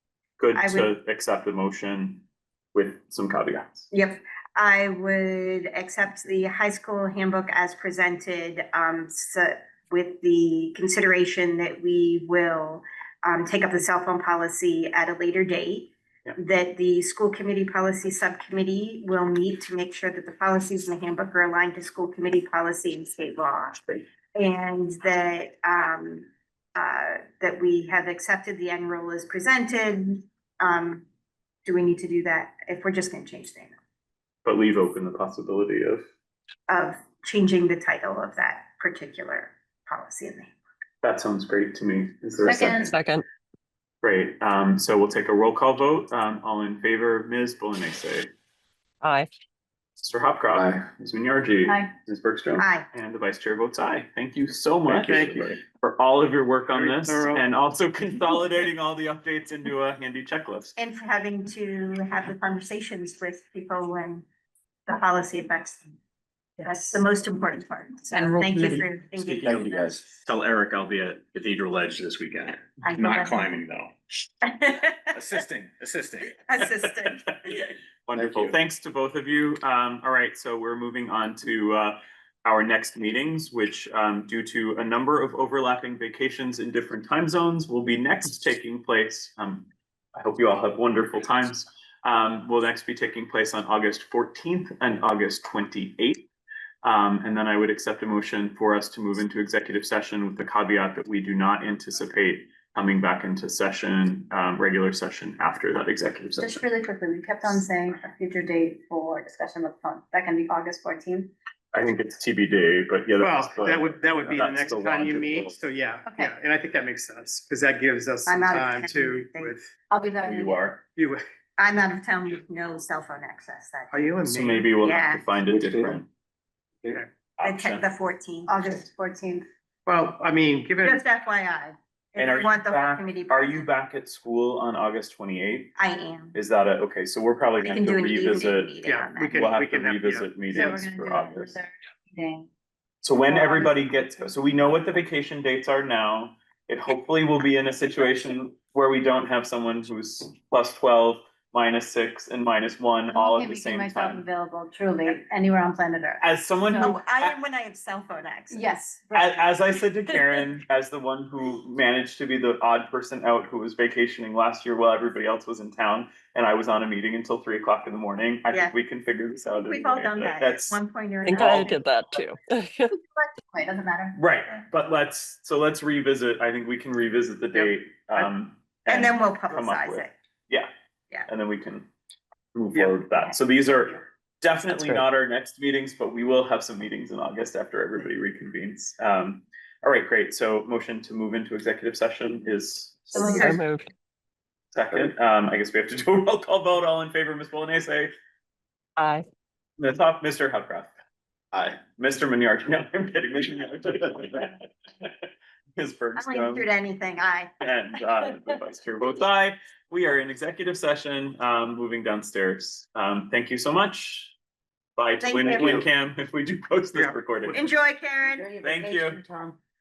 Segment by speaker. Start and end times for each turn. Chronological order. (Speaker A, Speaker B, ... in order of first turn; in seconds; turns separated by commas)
Speaker A: 0.4-3.9, Speaker B: 0.5-0.9, Speaker B: 3.9-31.1, Speaker B: 31.6-33.8, Speaker A: 34.4-36.0, Speaker B: 36.7-40.5, Speaker A: 41.0-42.9, Speaker C: 42.4-42.9, Speaker D: 42.8-43.2, Speaker A: 44.0-48.3, Speaker D: 49.0-49.3, Speaker A: 50.0-60.7, Speaker B: 52.6-52.9, Speaker E: 54.9-55.5, Speaker E: 56.8-57.4, Speaker B: 60.8-64.2, Speaker B: 64.9-65.9, Speaker B: 66.6-70.0, Speaker F: 68.4-68.8, Speaker F: 69.5-73.9, Speaker B: 72.8-73.5, Speaker B: 74.4-75.2, Speaker F: 75.1-76.3, Speaker B: 76.3-77.5, Speaker A: 76.8-96.3, Speaker F: 78.1-78.5, Speaker A: 96.8-106.7, Speaker C: 106.4-111.3, Speaker A: 111.7-115.6, Speaker E: 113.2-119.7, Speaker C: 116.0-116.3, Speaker B: 118.2-119.5, Speaker C: 119.9-120.6, Speaker A: 120.2-120.8, Speaker E: 121.0-121.2, Speaker B: 121.6-124.0, Speaker E: 123.9-124.7, Speaker A: 124.2-126.0, Speaker B: 124.8-125.2, Speaker F: 125.5-126.0, Speaker A: 127.4-127.9, Speaker B: 127.4-128.8, Speaker C: 128.5-129.5, Speaker E: 129.8-131.0, Speaker B: 130.8-133.7, Speaker A: 132.2-135.7, Speaker B: 135.8-136.4, Speaker A: 136.3-138.7, Speaker B: 137.6-139.5, Speaker E: 138.8-140.7, Speaker A: 139.3-141.6, Speaker C: 140.5-142.5, Speaker A: 143.0-154.2, Speaker C: 143.3-143.9, Speaker C: 153.1-156.9, Speaker A: 156.2-157.3, Speaker B: 156.8-158.7, Speaker C: 158.5-159.4, Speaker A: 159.1-170.8, Speaker B: 169.5-171.6, Speaker D: 171.2-172.9, Speaker A: 171.3-171.8, Speaker C: 173.0-174.2, Speaker A: 174.2-180.7, Speaker B: 178.9-180.1, Speaker A: 181.3-181.9, Speaker A: 182.5-193.6, Speaker C: 193.1-193.5, Speaker D: 193.2-193.9, Speaker A: 194.7-198.1, Speaker D: 199.0-199.2, Speaker A: 199.8-200.9, Speaker A: 201.5-205.1, Speaker A: 205.8-206.7, Speaker B: 206.2-207.5, Speaker A: 207.6-214.3, Speaker A: 215.0-217.7, Speaker B: 215.2-215.8, Speaker B: 217.5-218.5, Speaker C: 218.2-219.6, Speaker A: 218.6-219.2